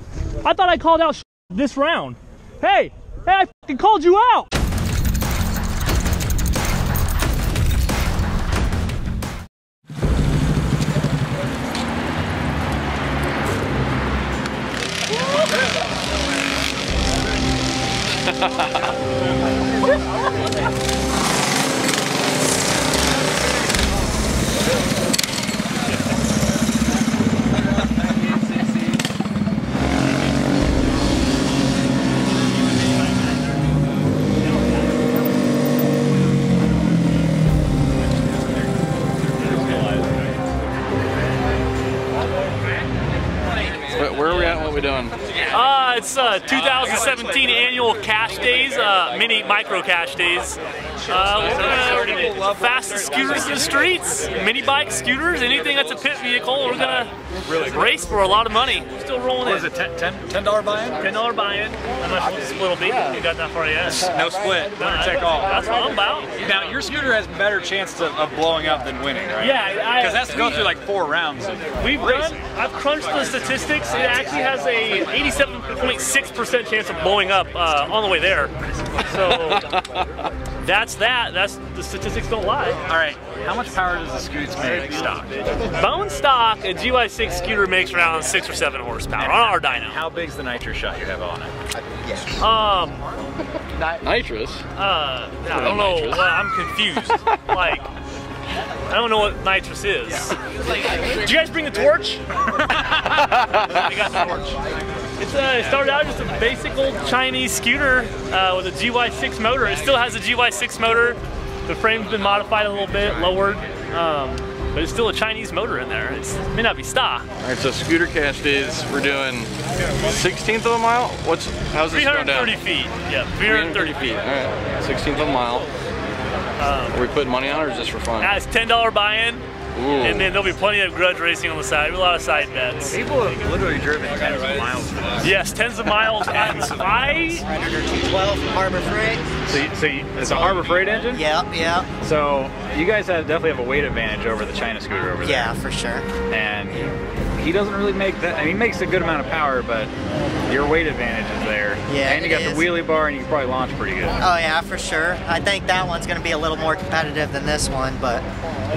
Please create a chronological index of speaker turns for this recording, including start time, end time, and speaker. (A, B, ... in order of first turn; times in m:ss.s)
0:00.4-0:04.5 A
0:44.0-0:45.2 B
0:45.4-0:59.7 A
0:51.4-0:53.7 C
0:57.5-0:57.9 C
0:59.4-1:01.0 C
1:01.0-1:04.1 A
1:03.9-1:05.6 C
1:04.7-1:06.3 A
1:06.4-1:12.4 C
1:09.4-1:10.7 A
1:11.8-1:19.8 A
1:20.6-1:22.8 A
1:22.9-1:25.5 C
1:25.6-1:30.0 A
1:29.2-1:31.6 C
1:32.4-1:33.0 A
1:34.0-1:34.6 B
1:34.8-1:37.9 A
1:35.5-1:36.2 C
1:38.9-1:44.6 A
1:45.2-1:57.3 A
1:57.4-1:59.5 B
2:00.1-2:02.5 B
2:01.9-2:04.1 A
2:03.5-2:05.7 B
2:06.6-2:07.0 A
2:06.9-2:08.4 B
2:08.2-2:09.4 A
2:09.8-2:10.2 B
2:10.0-2:13.0 A
2:12.9-2:15.3 C
2:15.2-2:17.5 A
2:17.5-2:19.2 D
2:19.5-2:21.2 C
2:20.2-2:20.5 D
2:21.1-2:21.9 D
2:22.0-2:25.5 C
2:25.2-2:26.1 D
2:26.3-2:26.8 C
2:27.4-2:29.9 C
2:30.5-2:34.2 C
2:31.9-2:32.7 D
2:34.2-2:38.2 D